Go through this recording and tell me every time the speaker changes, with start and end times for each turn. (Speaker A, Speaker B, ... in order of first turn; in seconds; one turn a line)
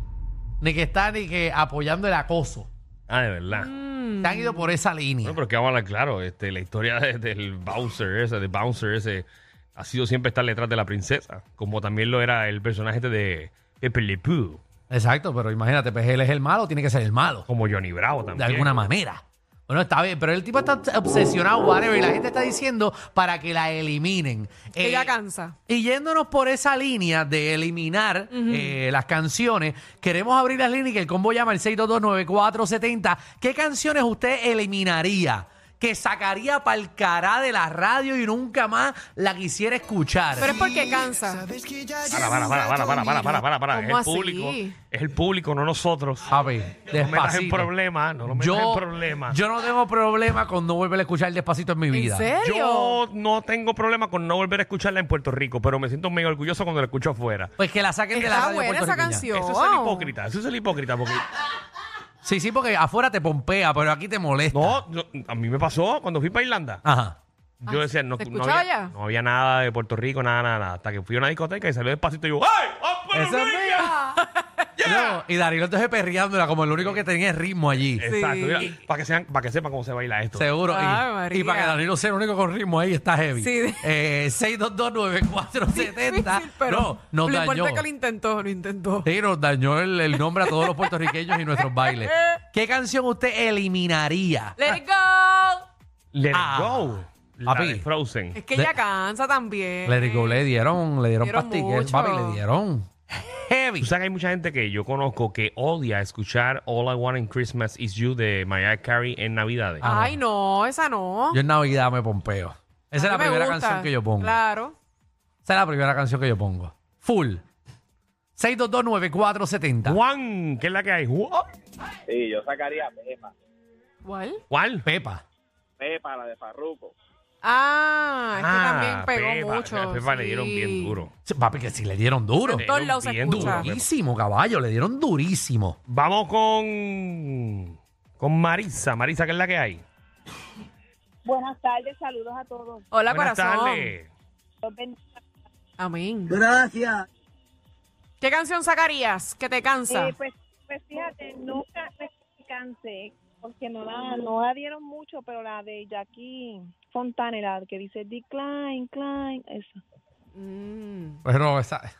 Speaker A: 0.6-2.7
Speaker B: 3.1-3.7
Speaker C: 3.5-4.8
Speaker A: 4.2-5.4
Speaker B: 5.2-14.6
Speaker A: 14.9-17.5
Speaker B: 17.5-18.7
Speaker A: 18.4-25.1
Speaker C: 24.8-25.6
Speaker A: 25.7-41.0
Speaker C: 28.3-28.8
Speaker C: 40.4-41.5
Speaker B: 42.1-46.3
Speaker C: 43.0-44.7
Speaker A: 46.3-52.3
Speaker B: 46.9-49.4
Speaker C: 51.9-53.0
Speaker B: 52.4-57.5
Speaker A: 57.6-59.3
Speaker C: 58.1-60.1
Speaker B: 59.3-61.2
Speaker A: 62.2-64.8
Speaker B: 64.5-66.8
Speaker A: 66.8-67.2
Speaker B: 67.6-73.6
Speaker C: 67.7-68.9
Speaker A: 73.1-74.2
Speaker C: 73.6-74.7
Speaker A: 74.8-78.1
Speaker B: 78.0-80.5
Speaker C: 78.0-78.8
Speaker A: 80.3-87.8
Speaker C: 80.7-81.8
Speaker C: 83.4-83.8
Speaker C: 85.7-89.1
Speaker A: 89.0-94.6
Speaker C: 90.5-90.9
Speaker C: 91.6-92.3
Speaker C: 94.6-95.7
Speaker B: 96.1-98.4
Speaker A: 96.3-97.8
Speaker C: 98.3-100.5
Speaker A: 99.8-103.9
Speaker C: 101.2-102.4
Speaker B: 103.8-109.8
Speaker A: 109.8-110.2
Speaker C: 109.8-111.4
Speaker A: 111.3-114.4
Speaker C: 112.9-114.8
Speaker A: 115.4-117.4
Speaker A: 118.4-120.0
Speaker B: 119.8-121.5
Speaker D: 122.1-122.9
Speaker C: 124.0-124.4
Speaker B: 124.5-124.8
Speaker A: 124.8-125.2
Speaker D: 125.8-126.9
Speaker C: 127.4-130.9
Speaker B: 128.3-131.1
Speaker A: 131.2-132.7
Speaker C: 132.5-133.7
Speaker B: 132.6-133.9
Speaker A: 133.2-135.8
Speaker B: 135.9-139.8
Speaker E: 141.2-142.8
Speaker C: 142.9-143.9
Speaker B: 143.1-144.1
Speaker E: 144.6-145.1
Speaker C: 145.8-146.4
Speaker C: 148.2-150.1
Speaker E: 149.9-159.8
Speaker C: 160.3-161.2
Speaker A: 161.2-161.9